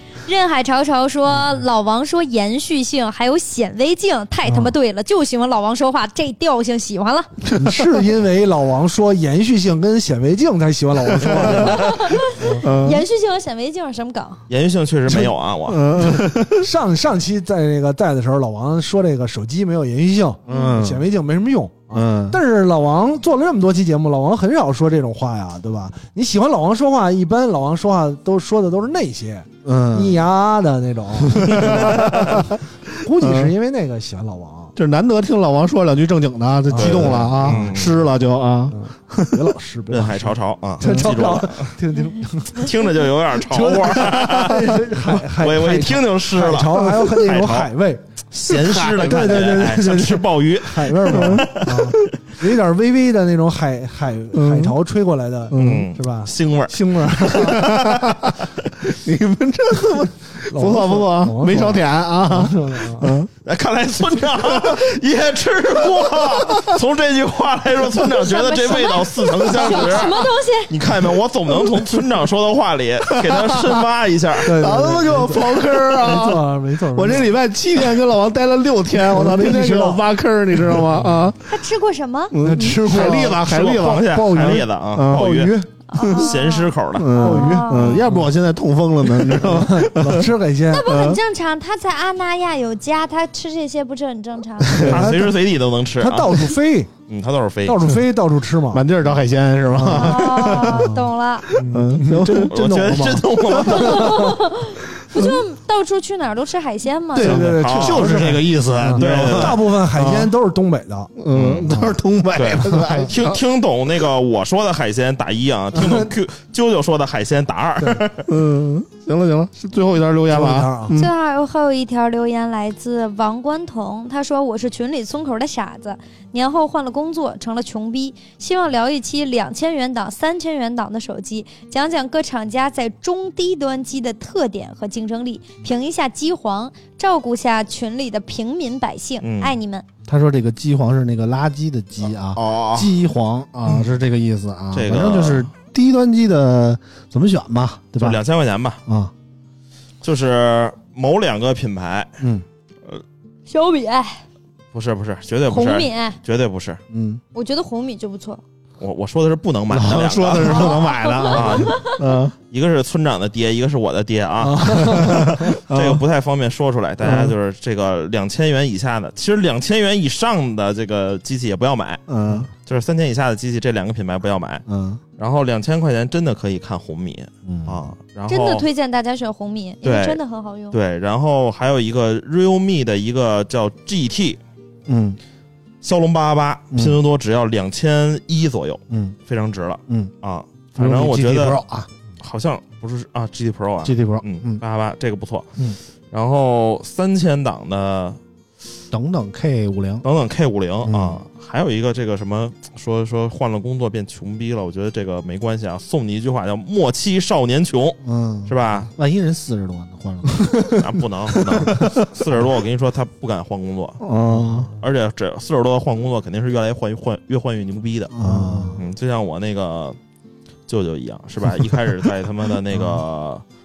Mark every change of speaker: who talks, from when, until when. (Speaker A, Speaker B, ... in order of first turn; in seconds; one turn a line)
Speaker A: 0.3-7.3
Speaker B: 4.5-4.7
Speaker B: 7.6-12.6
Speaker C: 11.2-11.6
Speaker A: 11.6-14.4
Speaker C: 12.5-13.1
Speaker D: 14.5-15.9
Speaker C: 15.7-16.6
Speaker B: 16.0-34.7
Speaker C: 20.5-21.1
Speaker A: 20.5-20.8
Speaker C: 21.9-22.4
Speaker C: 29.6-30.2
Speaker C: 31.3-32.6
Speaker C: 33.1-33.5
Speaker C: 34.8-39.5
Speaker B: 36.7-37.9
Speaker D: 36.8-38.0
Speaker B: 38.7-57.7
Speaker D: 39.9-41.8
Speaker C: 40.8-41.1
Speaker D: 42.6-44.8
Speaker D: 45.4-47.7
Speaker D: 48.3-52.0
Speaker C: 48.5-49.5
Speaker C: 51.1-52.0
Speaker C: 54.3-54.8
Speaker C: 55.5-55.9
Speaker D: 55.5-58.2
Speaker C: 57.4-63.3
Speaker B: 60.5-63.2
Speaker D: 63.4-74.6
Speaker C: 64.4-64.9
Speaker C: 65.8-66.8
Speaker A: 68.1-70.7
Speaker C: 71.5-72.0
Speaker C: 73.1-73.8
Speaker C: 74.4-81.4
Speaker B: 74.5-77.3
Speaker B: 79.0-80.0
Speaker B: 80.6-81.3
Speaker A: 81.5-82.3
Speaker C: 82.3-86.3
Speaker B: 82.4-83.4
Speaker D: 82.9-85.5
Speaker B: 84.1-84.6
Speaker B: 85.2-85.5
Speaker A: 85.9-87.8
Speaker D: 86.1-87.2
Speaker C: 87.0-90.3
Speaker B: 87.1-88.3
Speaker D: 87.8-88.0
Speaker B: 89.1-90.9
Speaker A: 90.7-94.9
Speaker C: 90.9-91.2
Speaker C: 94.7-95.0
Speaker B: 94.8-95.4
Speaker D: 94.8-96.6
Speaker B: 96.0-96.9
Speaker D: 97.1-97.8
Speaker B: 97.7-98.8
Speaker C: 98.7-100.9
Speaker B: 99.7-104.3
Speaker A: 99.9-101.5
Speaker C: 101.6-102.6
Speaker D: 102.3-104.3
Speaker C: 103.5-104.1
Speaker A: 103.9-107.3
Speaker C: 105.0-105.4
Speaker C: 107.1-110.3
Speaker D: 107.2-109.8
Speaker B: 107.2-111.1
Speaker C: 111.2-113.4
Speaker D: 111.3-118.3
Speaker B: 115.8-116.1
Speaker C: 118.3-121.1
Speaker B: 120.3-121.0
Speaker A: 121.0-139.8
Speaker D: 139.2-139.5
Speaker C: 140.1-148.2
Speaker D: 142.3-142.9
Speaker D: 144.7-145.5
Speaker D: 148.0-148.8
Speaker C: 148.9-149.1
Speaker D: 150.0-152.1
Speaker A: 153.5-154.2
Speaker D: 154.7-156.8
Speaker A: 155.5-156.2
Speaker C: 156.9-157.2
Speaker A: 157.3-158.4
Speaker D: 158.8-161.8
Speaker C: 159.7-162.3
Speaker A: 160.5-162.0
Speaker D: 162.5-172.0
Speaker B: 164.4-165.5
Speaker C: 164.9-166.0
Speaker C: 167.0-167.3
Speaker C: 172.1-172.5
Speaker D: 172.7-174.6
Speaker C: 174.7-175.0
Speaker D: 175.2-178.7
Speaker C: 177.5-177.9
Speaker A: 178.3-180.8
Speaker D: 179.8-184.4
Speaker C: 184.9-185.2
Speaker D: 185.8-191.6
Speaker C: 186.7-187.0
Speaker C: 188.9-189.2
Speaker C: 190.8-191.9
Speaker D: 192.2-195.5
Speaker C: 193.8-194.6
Speaker D: 196.1-198.2
Speaker C: 198.9-200.1
Speaker D: 200.0-208.9
Speaker C: 200.8-201.2
Speaker C: 208.0-210.7
Speaker D: 210.7-214.0
Speaker C: 211.7-211.9
Speaker C: 214.0-214.7
Speaker B: 214.4-214.7
Speaker D: 214.8-218.1
Speaker C: 218.1-218.8
Speaker B: 218.2-218.8
Speaker D: 218.8-220.0
Speaker D: 220.7-223.4